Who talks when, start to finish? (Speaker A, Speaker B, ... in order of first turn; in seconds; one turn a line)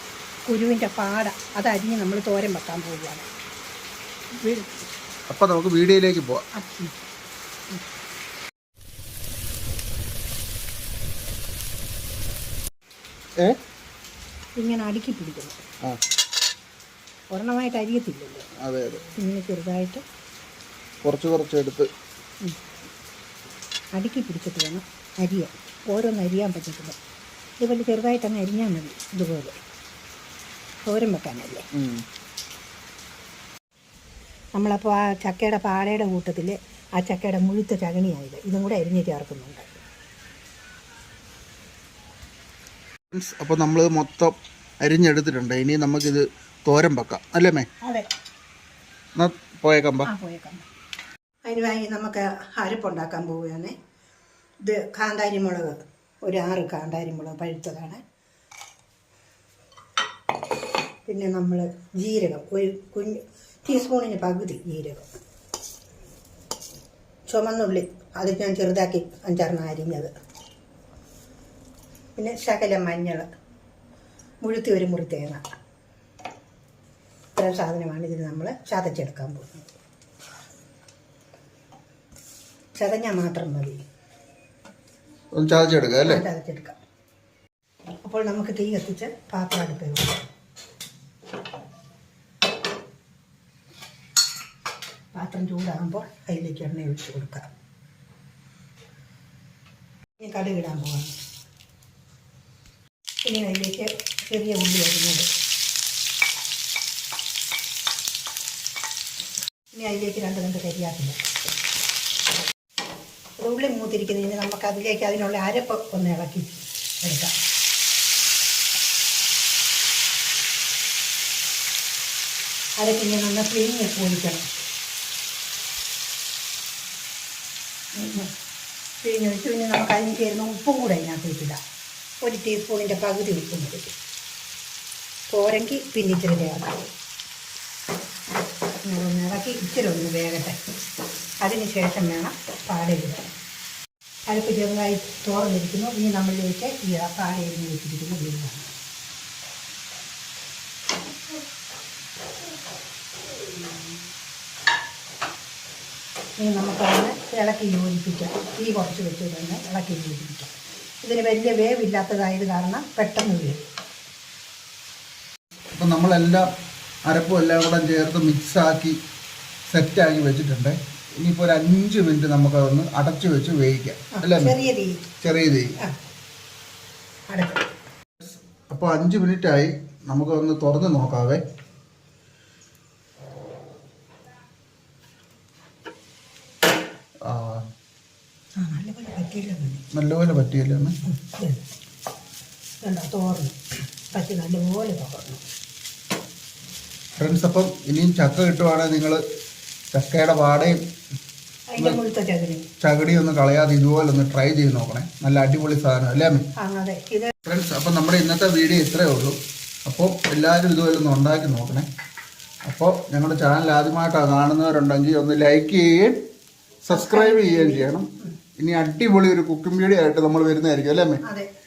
Speaker A: 0.5-3.3
Speaker A: 4.3-4.8
Speaker B: 5.3-6.5
Speaker A: 6.5-6.9
Speaker A: 14.6-15.6
Speaker A: 17.3-18.5
Speaker B: 18.6-19.1
Speaker A: 19.1-20.0
Speaker B: 21.0-21.9
Speaker A: 23.9-27.0
Speaker A: 27.6-29.6
Speaker A: 30.8-31.7
Speaker B: 31.7-32.0
Speaker A: 34.5-39.8
Speaker B: 43.1-47.7
Speaker A: 47.8-48.1
Speaker B: 49.2-50.1
Speaker A: 50.0-50.7
Speaker A: 51.4-53.7
Speaker A: 54.6-58.0
Speaker A: 61.0-65.1
Speaker A: 67.3-70.1
Speaker A: 72.2-73.3
Speaker A: 74.4-75.4
Speaker A: 77.3-79.7
Speaker A: 82.8-83.8
Speaker B: 85.3-86.2
Speaker A: 86.0-86.8
Speaker A: 88.0-90.2
Speaker A: 95.1-97.4
Speaker A: 100.2-101.2
Speaker A: 103.2-105.3
Speaker A: 109.7-111.2
Speaker A: 113.4-117.3
Speaker A: 122.8-124.5
Speaker A: 127.9-128.3
Speaker A: 129.0-131.6
Speaker A: 132.2-133.8
Speaker A: 135.3-136.8
Speaker A: 138.8-140.6
Speaker A: 141.4-143.3
Speaker A: 144.3-148.7
Speaker A: 156.4-163.6
Speaker B: 165.7-166.5
Speaker B: 167.1-169.0
Speaker B: 169.7-174.5
Speaker A: 174.1-175.0
Speaker B: 175.2-175.7
Speaker A: 177.3-177.7
Speaker B: 178.2-181.4
Speaker B: 187.2-187.6
Speaker A: 188.6-189.8
Speaker B: 189.9-190.9
Speaker A: 191.1-191.6
Speaker A: 192.8-193.6
Speaker A: 194.1-195.4
Speaker B: 197.2-199.2
Speaker B: 199.9-200.8
Speaker A: 201.7-202.7
Speaker B: 202.8-206.5
Speaker A: 206.6-207.3
Speaker B: 207.4-211.8
Speaker B: 212.7-216.2
Speaker B: 216.8-221.2
Speaker A: 216.9-218.3
Speaker A: 221.2-221.5